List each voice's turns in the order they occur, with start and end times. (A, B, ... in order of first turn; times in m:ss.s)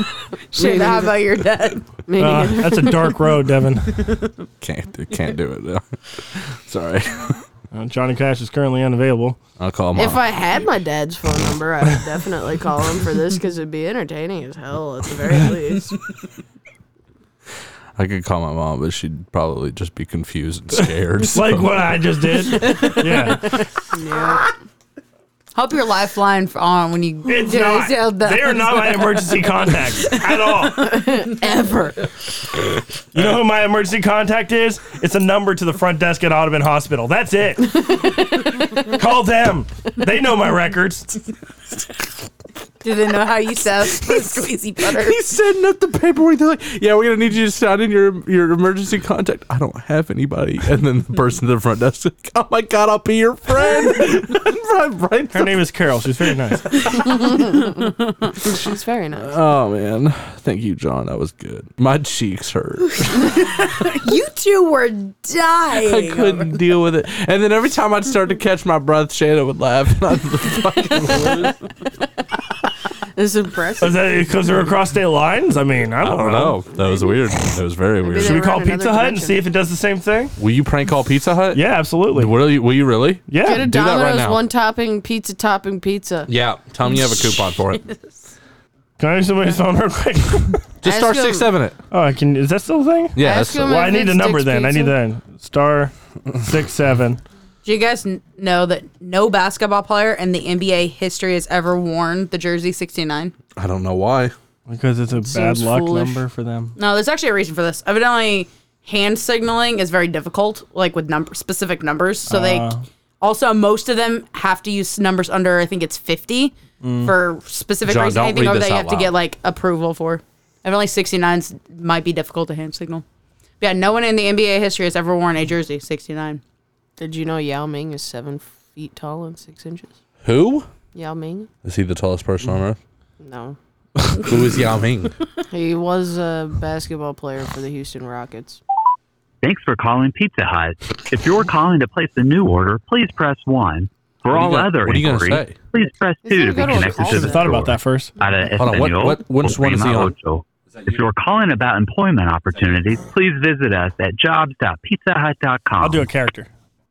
0:00.5-0:01.8 A
0:00.5-0:01.1 B
0:02.0-0:03.2 B
0:02.2-0:04.0 C
0:04.6-0:07.4 D
0:07.7-0:09.4 C
0:09.6-0:10.2 D
0:10.0-0:16.0 B
0:18.0-0:22.0 D
0:21.3-0:23.5 C
0:22.6-0:23.4 A
0:23.9-0:24.5 B
0:25.5-0:29.2 A
0:27.2-0:31.0 C
0:30.8-0:32.1 B
0:33.1-0:41.2 C
0:42.8-0:45.2 A
0:44.9-0:55.6 D
0:55.3-0:56.7 C
0:56.8-0:57.1 D
0:57.0-0:59.4 B
0:59.2-1:03.4 D
1:03.5-1:06.6 A
1:05.7-1:11.5 D
1:13.1-1:14.2 B
1:13.8-1:16.6 C
1:16.0-1:18.5 D
1:18.0-1:19.4 B
1:18.2-1:20.4 C
1:20.4-1:24.4 D
1:21.5-1:22.3 C
1:23.3-1:23.6 C
1:23.4-1:26.3 B
1:26.3-1:27.8 D
1:29.0-1:30.6 C
1:30.8-1:31.8 D
1:30.8-1:31.5 B
1:31.9-1:37.2 C
1:33.2-1:33.8 D
1:33.2-1:35.0 B
1:37.6-1:43.3 A
1:43.6-1:44.4 D
1:44.7-1:46.8 C
1:45.3-1:46.1 B
1:46.8-2:03.0 A
1:52.3-1:52.8 C
1:56.8-1:57.1 C
1:57.8-1:59.1 D
2:03.6-2:06.4 A
2:07.0-2:09.9 B
2:10.2-2:10.7 D
2:10.9-2:11.5 B
2:11.6-2:12.8 D
2:13.2-2:13.6 B
2:14.0-2:15.1 D
2:15.5-2:18.6 B
2:19.4-2:36.0 E
2:24.3-2:25.6 D
2:26.2-2:27.6 B
2:27.0-2:28.1 C
2:28.6-2:30.1 D
2:35.8-2:36.5 C